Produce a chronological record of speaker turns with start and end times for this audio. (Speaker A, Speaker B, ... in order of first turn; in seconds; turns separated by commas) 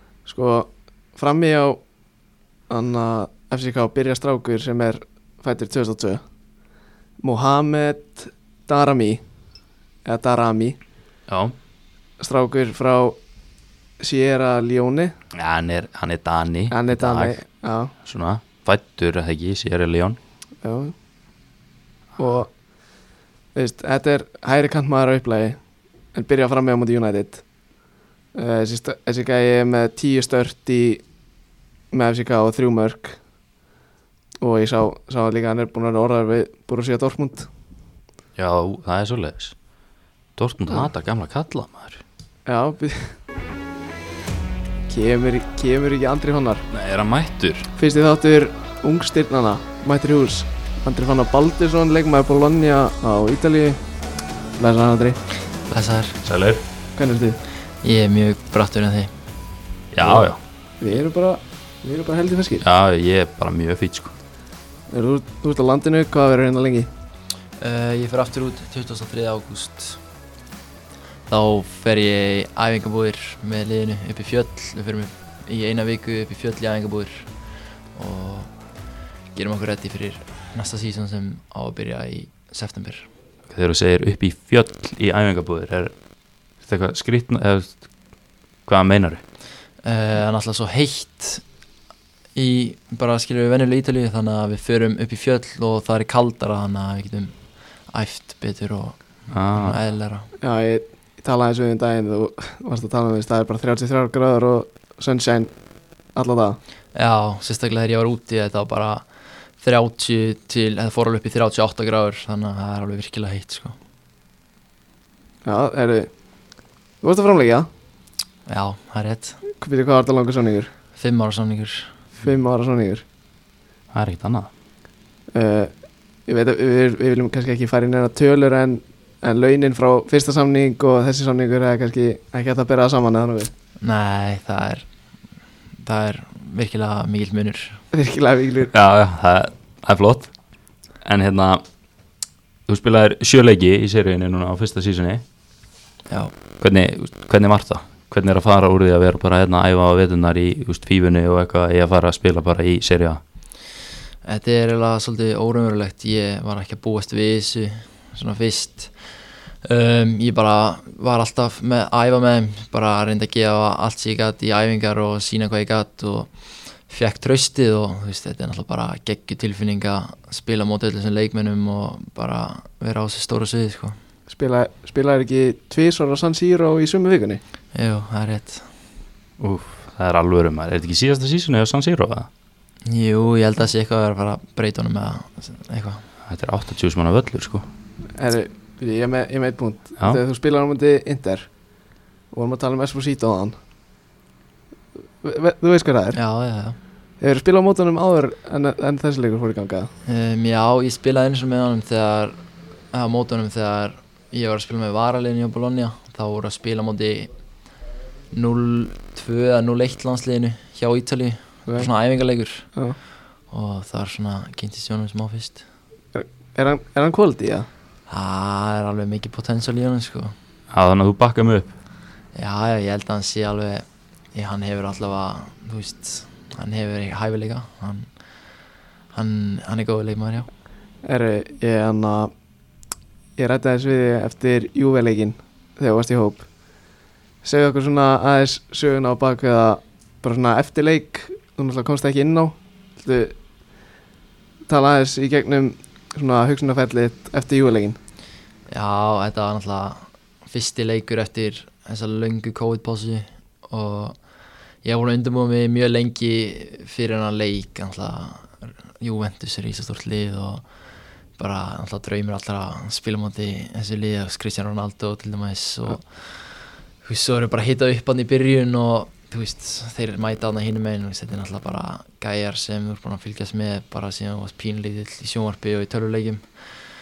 Speaker A: 0.2-1.8, Speaker A: 2.7-6.2, Speaker A: 7.2-9.2, Speaker A: 10.0-10.8, Speaker B: 11.3-11.5, Speaker A: 12.2-13.2, Speaker A: 14.0-15.1, Speaker B: 15.3-17.4, Speaker A: 16.7-17.9, Speaker B: 18.0-20.2, Speaker A: 20.6-20.9, Speaker A: 22.2-22.5, Speaker A: 23.5-25.6, Speaker A: 26.1-27.4, Speaker A: 28.3-31.0, Speaker A: 31.9-33.2, Speaker A: 34.4-37.5, Speaker B: 38.4-39.5, Speaker B: 40.4-42.0, Speaker A: 42.5-43.1, Speaker A: 44.9-46.6, Speaker B: 46.7-47.7, Speaker A: 47.8-53.8, Speaker A: 54.6-55.2, Speaker C: 55.7-56.2, Speaker B: 56.2-56.6, Speaker A: 57.0-57.4, Speaker C: 57.8-59.1, Speaker B: 59.9-60.4, Speaker A: 60.0-60.3, Speaker A: 60.8-62.6, Speaker B: 62.6-64.1, Speaker A: 64.9-66.9, Speaker C: 67.6-70.0, Speaker C: 71.3-77.3, Speaker C: 77.9-78.5, Speaker C: 79.3-83.1, Speaker B: 83.5-85.9, Speaker B: 86.6-87.8, Speaker B: 88.7-89.2, Speaker C: 89.8-91.4, Speaker C: 92.3-97.3, Speaker C: 97.9-99.0, Speaker B: 99.3-99.8, Speaker C: 99.5-100.3, Speaker A: 100.4-105.5, Speaker A: 106.1-106.6, Speaker C: 106.9-109.0, Speaker C: 109.6-113.8, Speaker A: 115.4-116.1, Speaker A: 117.0-117.7, Speaker C: 118.5-119.4, Speaker A: 119.5-120.7, Speaker C: 121.0-121.9, Speaker A: 122.2-123.0, Speaker B: 123.9-124.5, Speaker A: 125.3-125.7, Speaker A: 126.3-133.5, Speaker C: 133.8-134.8, Speaker C: 135.8-137.8, Speaker A: 137.9-138.7, Speaker B: 138.7-140.3, Speaker B: 141.0-141.6, Speaker B: 142.7-145.2, Speaker B: 146.6-153.2, Speaker C: 154.2-158.9, Speaker C: 159.6-166.3, Speaker C: 166.9-174.0, Speaker A: 174.3-177.4, Speaker C: 177.7-178.7, Speaker B: 179.4-182.3, Speaker C: 182.8-186.0, Speaker B: 186.2-187.7, Speaker A: 188.2-191.5, Speaker A: 192.3-193.6, Speaker A: 195.2-196.2, Speaker C: 196.1-196.8, Speaker A: 197.2-199.9, Speaker C: 200.1-202.4, Speaker C: 202.9-207.3, Speaker C: 208.3-212.7, Speaker C: 213.5-215.6, Speaker A: 216.1-217.7, Speaker C: 218.1-220.3, Speaker B: 220.7-221.7, Speaker C: 222.3-228.1, Speaker C: 229.1-230.5, Speaker A: 231.0-232.3, Speaker A: 233.4-236.5, Speaker A: 237.4-243.3, Speaker A: 244.7-248.0, Speaker C: 248.7-254.2, Speaker C: 254.8-260.6, Speaker C: 261.4-276.4